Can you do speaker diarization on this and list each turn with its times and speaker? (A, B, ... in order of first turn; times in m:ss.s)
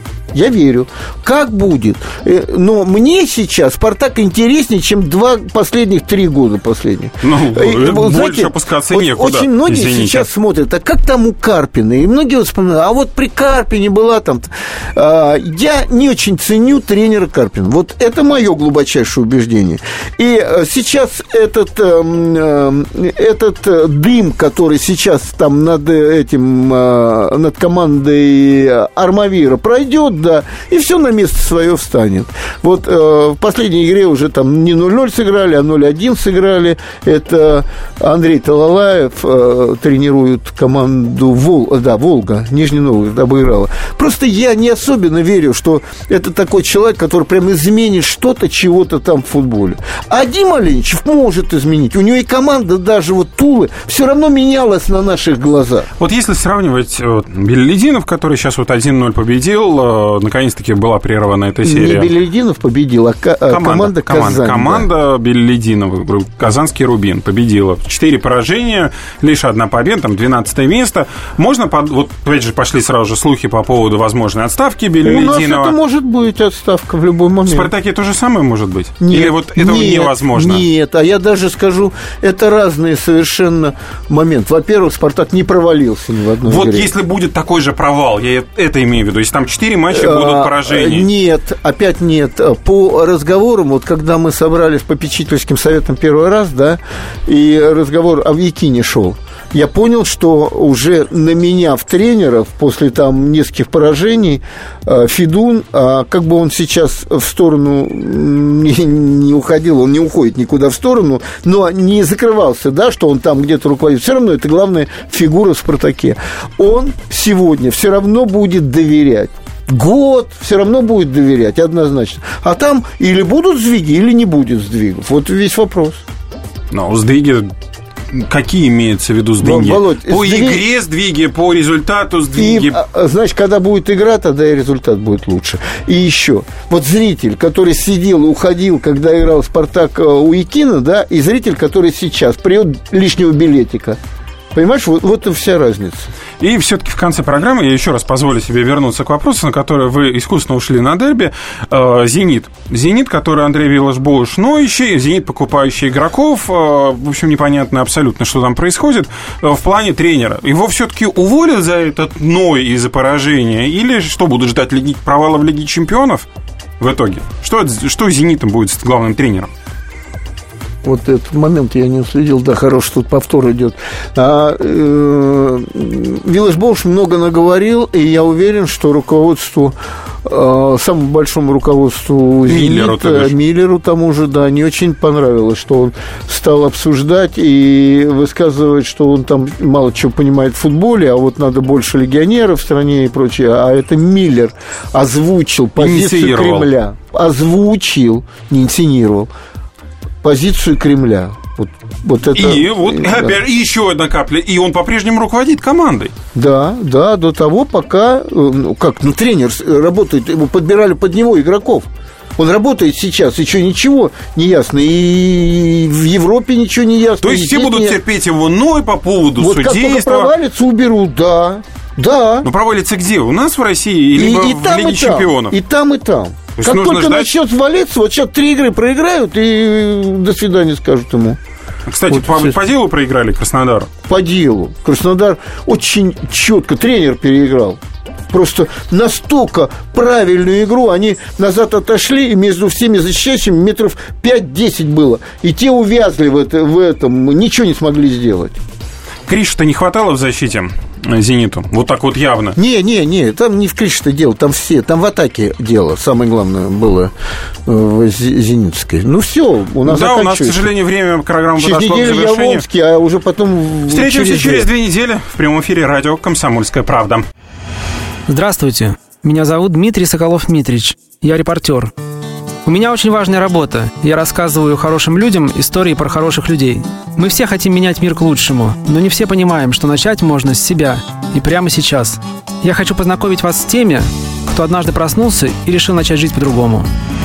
0:00.3-0:55.9 A
0:07.2-0:10.3 B
0:56.0-1:02.1 B
1:01.6-1:04.9 A
1:03.5-1:15.8 B
1:15.0-1:17.7 A
1:17.5-1:20.6 B
1:19.0-1:26.9 A
1:26.5-1:31.1 B
1:29.9-2:06.0 A
2:06.7-2:07.5 B
2:08.1-2:12.8 B
2:09.4-2:10.6 A
2:12.4-2:24.0 A
2:24.5-2:26.1 A
2:26.4-2:46.3 B
2:46.8-2:49.5 B
2:50.8-3:19.3 A
3:02.5-3:03.3 B
3:15.8-3:16.7 B
3:20.2-3:23.4 A
3:22.3-3:26.1 B
3:26.4-3:38.0 A
3:37.2-3:40.3 B
3:39.4-3:42.5 A
3:42.4-3:45.6 B
3:44.2-3:51.4 A
3:46.6-3:47.3 B
3:51.9-3:53.9 B
3:52.1-3:52.6 A
3:54.1-3:57.8 A
3:58.3-4:08.6 A
4:09.3-4:12.6 B
4:12.6-4:17.1 A
4:17.7-4:20.7 A
4:19.8-4:22.6 B
4:21.6-4:24.7 A
4:23.9-4:27.2 B
4:28.3-4:31.9 C
4:32.6-4:46.9 C